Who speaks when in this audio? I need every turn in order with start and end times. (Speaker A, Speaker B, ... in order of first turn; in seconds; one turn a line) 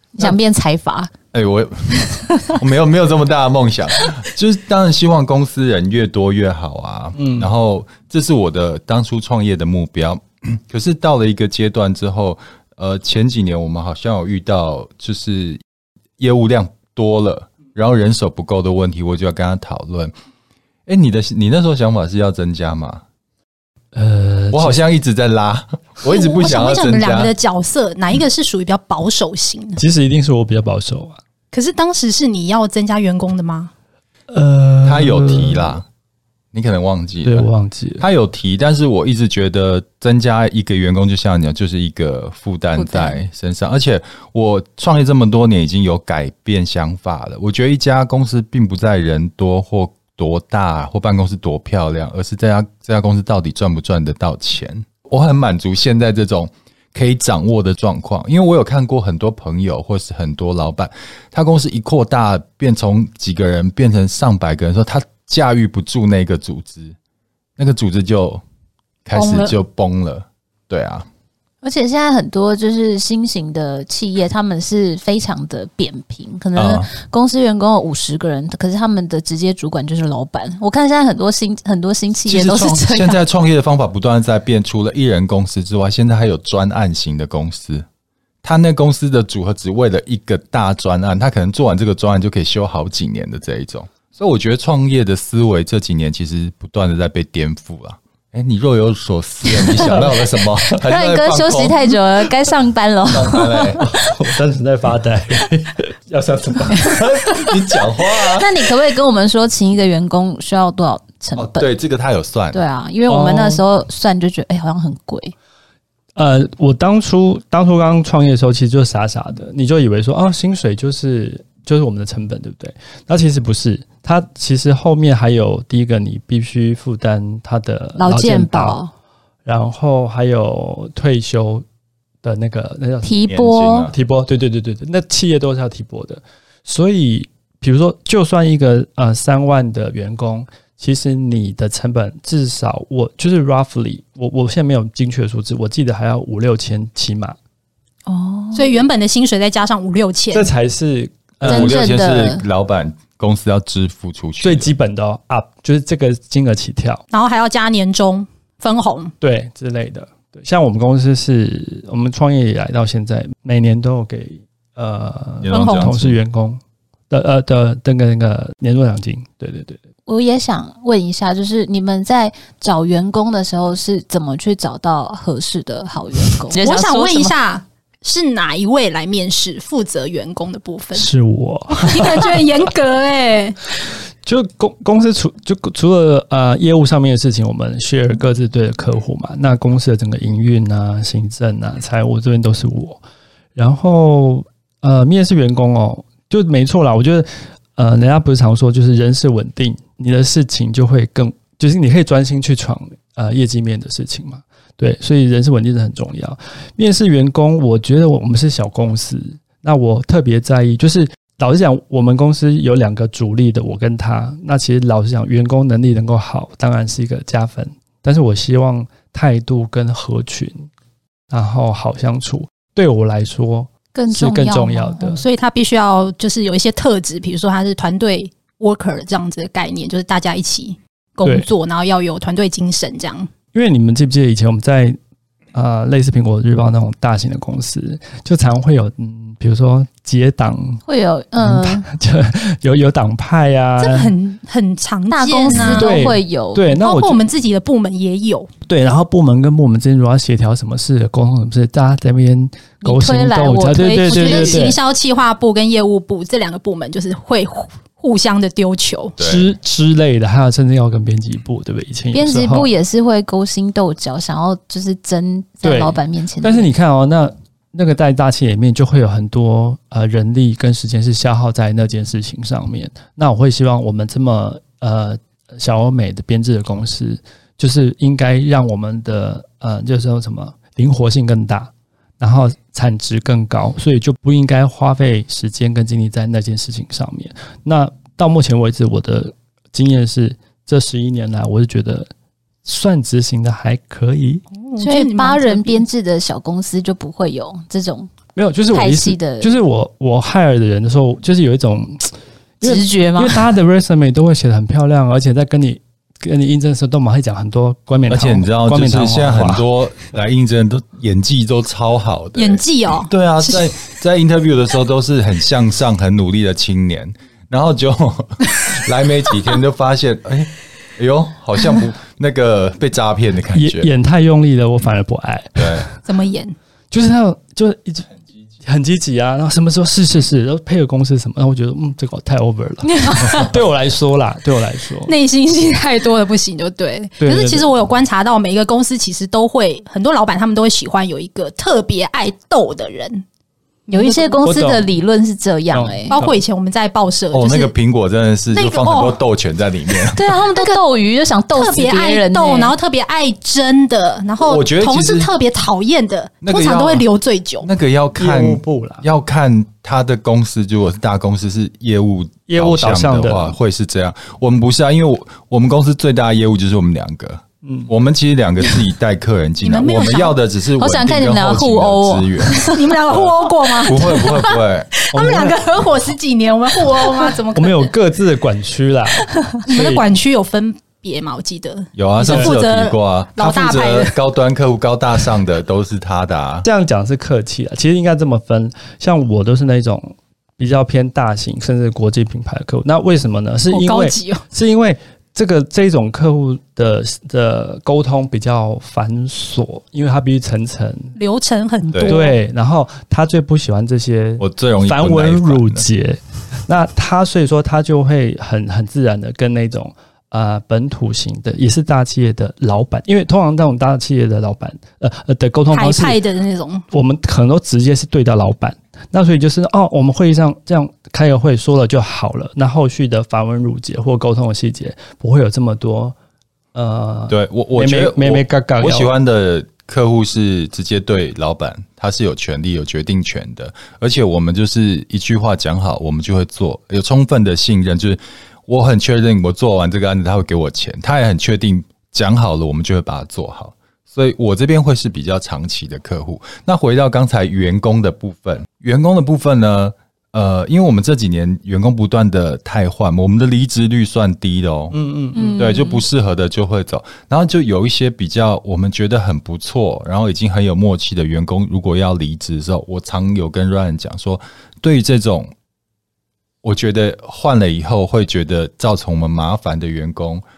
Speaker A: 0.2-1.1
Speaker B: 1.3-15.6
Speaker A: 2.1-2.5
Speaker C: 7.2-7.5
Speaker B: 16.2-20.1
Speaker B: 20.9-23.0
Speaker C: 23.9-24.8
Speaker B: 24.5-27.3
Speaker D: 26.1-29.8
Speaker C: 29.8-31.2
Speaker D: 31.5-33.7
Speaker C: 34.3-35.8
Speaker B: 34.9-35.9
Speaker B: 36.5-67.0
Speaker C: 37.2-38.0
Speaker A: 42.8-43.2
Speaker B: 67.6-68.4
Speaker B: 69.0-71.1
Speaker A: 69.2-69.5
Speaker A: 71.6-83.2
Speaker B: 76.5-76.9
Speaker B: 82.3-87.9
Speaker B: 88.4-101.9
Speaker A: 99.6-100.0
Speaker A: 100.7-103.9
Speaker B: 103.1-103.8
Speaker C: 103.8-107.0
Speaker B: 106.7-108.5
Speaker A: 108.3-111.7
Speaker B: 111.4-112.6
Speaker A: 112.5-115.3
Speaker C: 113.1-113.6
Speaker C: 116.2-128.8
Speaker A: 128.0-128.9
Speaker C: 129.4-131.6
Speaker C: 132.2-133.2
Speaker A: 133.0-133.9
Speaker B: 133.3-133.9
Speaker C: 133.9-147.4
Speaker A: 148.1-148.8
Speaker D: 148.5-150.5
Speaker C: 150.3-151.8
Speaker A: 151.4-152.4
Speaker B: 151.4-154.7
Speaker C: 154.4-157.0
Speaker D: 157.1-159.1
Speaker C: 159.2-169.8
Speaker B: 165.4-166.2
Speaker D: 165.5-165.8
Speaker A: 170.1-177.3
Speaker D: 176.5-181.1
Speaker C: 180.9-182.4
Speaker D: 181.7-183.6
Speaker C: 184.2-193.0
Speaker C: 193.6-220.7
Speaker C: 221.3-225.2
Speaker A: 223.9-225.1
Speaker D: 225.1-233.3
Speaker C: 233.5-235.0
Speaker C: 235.5-240.8
Speaker A: 240.9-241.9
Speaker C: 241.4-244.1
Speaker D: 243.8-246.0
Speaker A: 245.1-246.7
Speaker C: 245.5-247.2
Speaker D: 246.7-248.5
Speaker C: 248.7-254.8
Speaker A: 252.8-254.7
Speaker D: 254.0-259.1
Speaker B: 259.2-259.5
Speaker C: 259.2-262.7
Speaker A: 262.1-266.7
Speaker C: 265.6-292.1
Speaker C: 292.6-294.4
Speaker D: 294.6-295.9
Speaker A: 294.8-298.1
Speaker C: 298.4-309.6
Speaker A: 298.7-299.5
Speaker A: 302.6-303.5
Speaker B: 308.1-323.9
Speaker D: 312.4-313.7
Speaker C: 323.5-326.0
Speaker B: 325.6-325.9
Speaker D: 326.1-326.6
Speaker C: 326.9-328.1
Speaker C: 328.6-335.1
Speaker D: 335.1-343.2
Speaker C: 337.2-337.7
Speaker D: 343.9-344.6
Speaker A: 343.9-346.2
Speaker C: 344.4-344.9
Speaker C: 345.7-346.4
Speaker D: 346.1-347.7
Speaker B: 347.3-350.3
Speaker D: 348.5-349.2
Speaker A: 350.1-352.8
Speaker D: 350.5-350.8
Speaker D: 351.5-357.7
Speaker B: 354.4-355.3
Speaker B: 356.4-357.1
Speaker B: 357.6-372.6
Speaker C: 358.2-359.1
Speaker C: 362.5-363.6
Speaker C: 367.6-367.9
Speaker D: 369.6-370.4
Speaker A: 370.8-372.8
Speaker D: 372.6-377.9
Speaker B: 373.8-374.9
Speaker C: 375.1-375.6
Speaker C: 377.5-380.0
Speaker D: 379.6-384.1
Speaker B: 382.0-386.7
Speaker C: 382.2-382.5
Speaker C: 386.6-401.1
Speaker D: 393.7-394.4
Speaker D: 401.2-402.4
Speaker C: 402.1-416.2
Speaker B: 404.4-405.9
Speaker D: 415.7-416.9
Speaker C: 416.9-426.1
Speaker C: 426.7-429.1
Speaker B: 427.3-465.5
Speaker C: 454.9-455.6
Speaker A: 455.4-456.0
Speaker B: 466.6-470.4